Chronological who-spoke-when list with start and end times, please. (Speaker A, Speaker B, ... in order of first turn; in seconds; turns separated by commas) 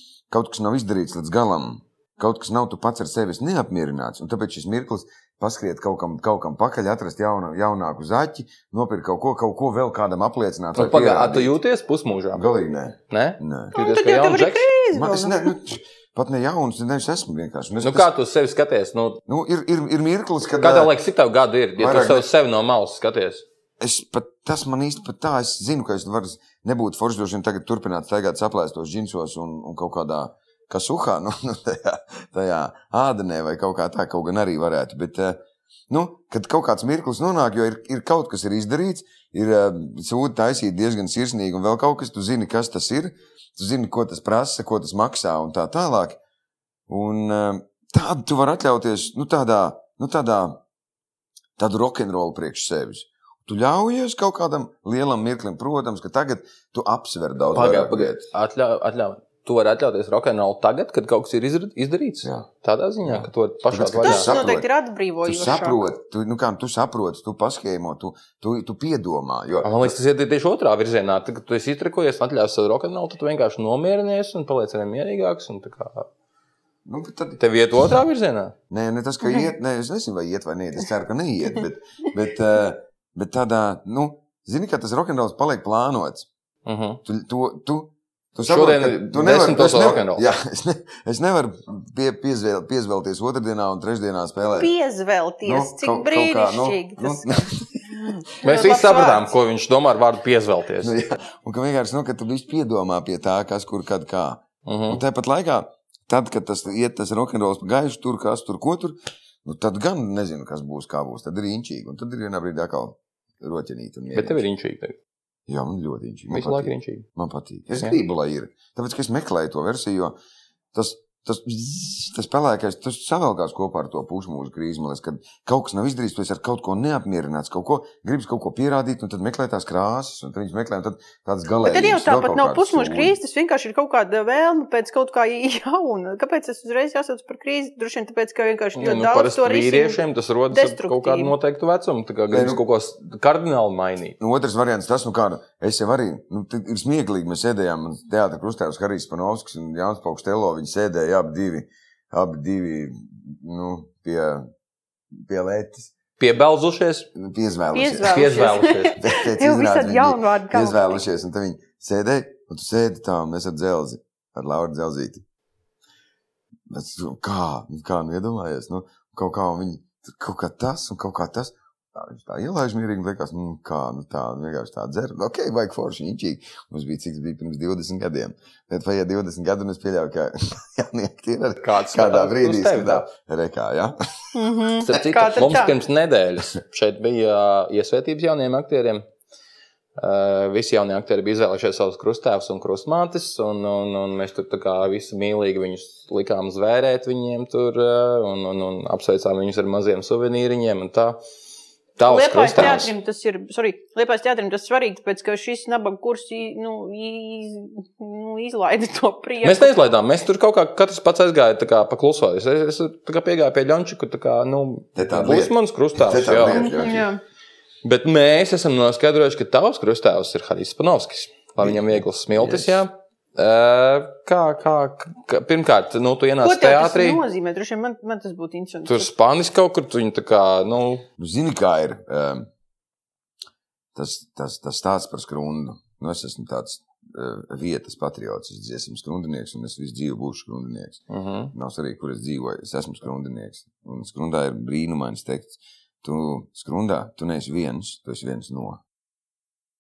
Speaker A: 0.3-11.6, Speaker B: 10.8-12.4, Speaker A: 12.3-13.8, Speaker B: 13.1-14.7, Speaker C: 13.8-15.5, Speaker A: 14.9-18.1, Speaker B: 17.8-19.2, Speaker A: 19.3-20.9, Speaker B: 20.6-23.4, Speaker A: 21.8-22.3, Speaker A: 23.8-35.4, Speaker A: 35.9-46.2, Speaker A: 46.9-50.6, Speaker A: 51.6-58.3, Speaker B: 57.5-64.3, Speaker A: 63.0-64.7, Speaker C: 64.0-65.8, Speaker A: 65.2-70.0, Speaker B: 69.6-76.1, Speaker A: 76.8-78.0, Speaker B: 77.4-78.5, Speaker A: 78.7-86.3, Speaker B: 86.7-87.0, Speaker A: 87.0-94.7, Speaker B: 88.5-90.2, Speaker C: 94.5-99.3, Speaker A: 95.5-98.1, Speaker B: 98.4-101.0, Speaker A: 100.8-114.4, Speaker B: 104.7-105.0, Speaker B: 114.1-115.0, Speaker A: 115.5-120.2, Speaker B: 116.3-117.1, Speaker A: 120.7-133.2, Speaker C: 131.6-141.3, Speaker B: 138.8-144.2, Speaker A: 142.3-142.6, Speaker A: 144.2-154.5, Speaker A: 155.1-155.9, Speaker B: 156.2-157.1, Speaker A: 157.2-158.3, Speaker C: 157.7-161.0, Speaker B: 158.1-159.0, Speaker A: 159.0-165.2, Speaker A: 166.7-183.9, Speaker B: 181.6-183.1, Speaker C: 184.3-185.8, Speaker B: 184.8-189.0, Speaker B: 190.0-201.2, Speaker B: 202.0-202.9, Speaker C: 202.1-209.8, Speaker B: 209.4-216.7, Speaker A: 214.9-217.1, Speaker C: 216.5-217.2, Speaker B: 217.8-227.2, Speaker A: 221.6-222.8, Speaker C: 226.4-229.1, Speaker B: 228.9-231.1, Speaker A: 231.2-232.5, Speaker A: 233.9-241.0, Speaker B: 241.1-241.5, Speaker A: 241.5-248.8